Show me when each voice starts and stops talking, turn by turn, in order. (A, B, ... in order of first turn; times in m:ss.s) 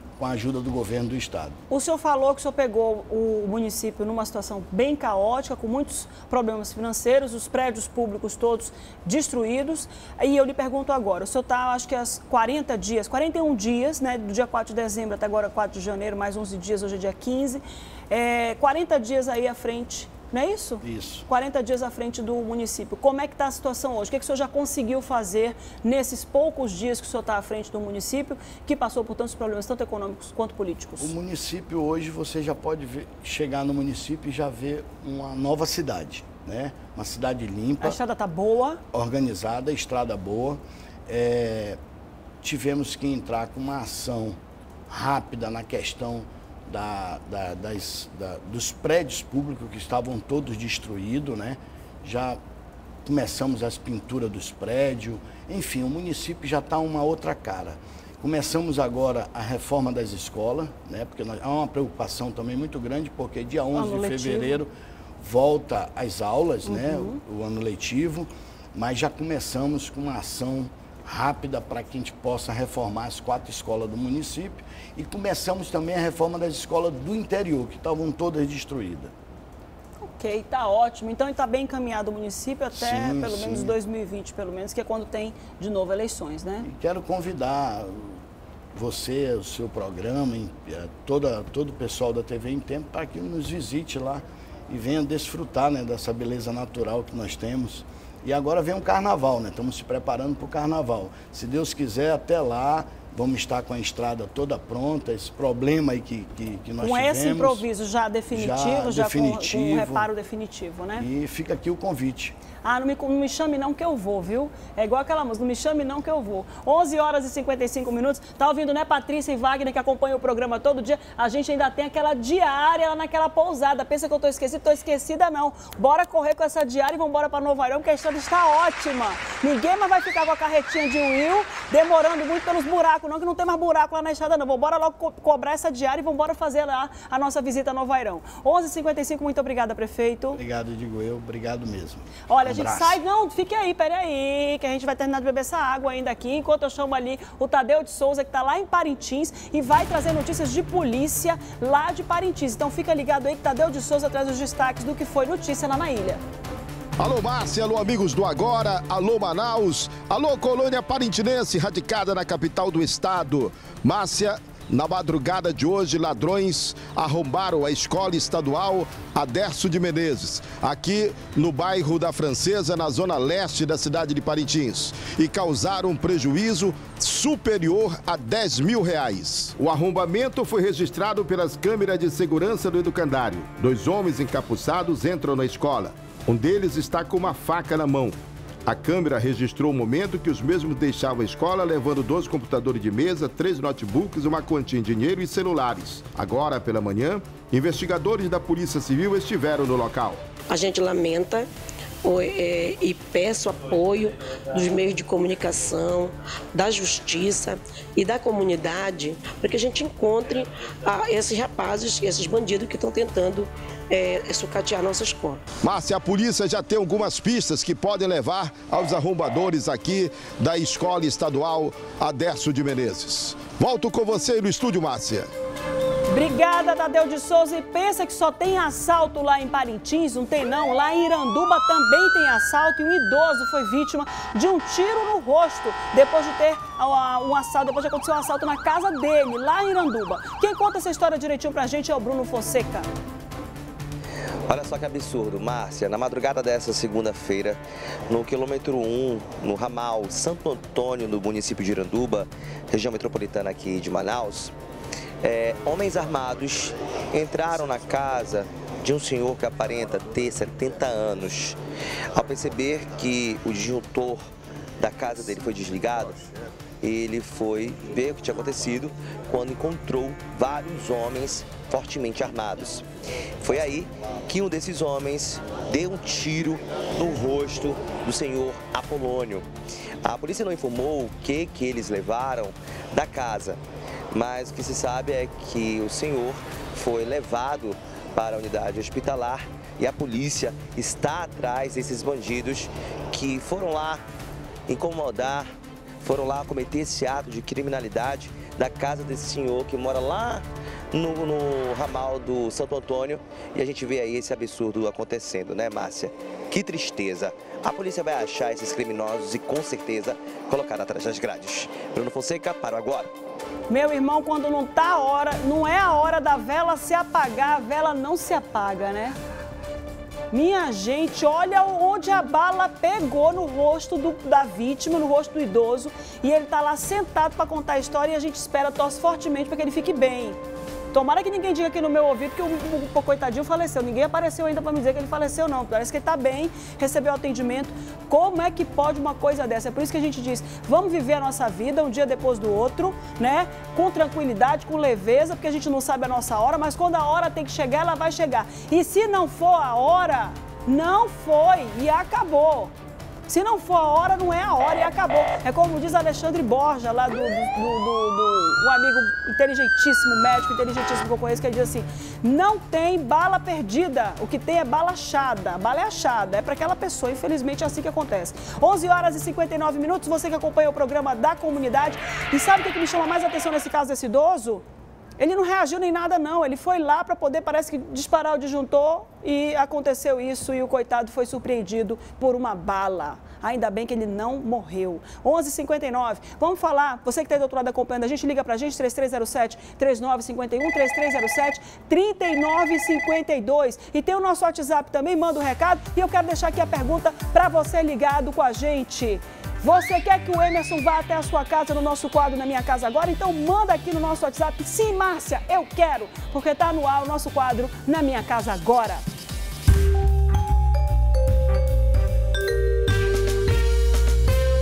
0:00.2-0:01.6 A
0:01.7-0:31.1 B
0:20.8-0:21.3 A
0:31.0-0:38.0 A
0:37.8-0:38.8 B
0:38.9-0:41.8 A
0:42.4-0:52.4 A
0:53.0-1:19.1 A
1:03.8-1:04.6 B
1:06.7-1:07.2 B
1:20.0-1:26.7 B
1:22.7-1:23.7 A
1:26.6-1:28.2 A
1:28.7-1:47.6 A
1:46.8-1:51.1 B
1:48.3-1:50.1 A
1:51.0-1:52.4 A
1:52.6-2:20.4 B
2:20.3-2:23.0 A
2:22.3-2:36.2 B
2:37.0-3:20.2 C
3:20.5-3:21.5 D
3:22.0-3:35.4 D
3:35.6-3:45.3 C
3:46.1-4:02.9 B
4:04.5-4:14.5 E
4:15.2-4:21.6 E
4:22.1-4:24.3 E
4:24.8-4:26.2 E
4:26.8-4:32.8 E
4:33.4-4:39.5 E
4:40.0-4:43.6 E
4:44.1-4:54.0 E
4:54.7-4:55.5 E
4:56.0-5:13.1 E
5:13.7-5:19.2 B
5:20.3-5:30.4 B
5:30.9-5:52.7 B
5:53.3-6:14.6 B
6:15.2-6:49.0 B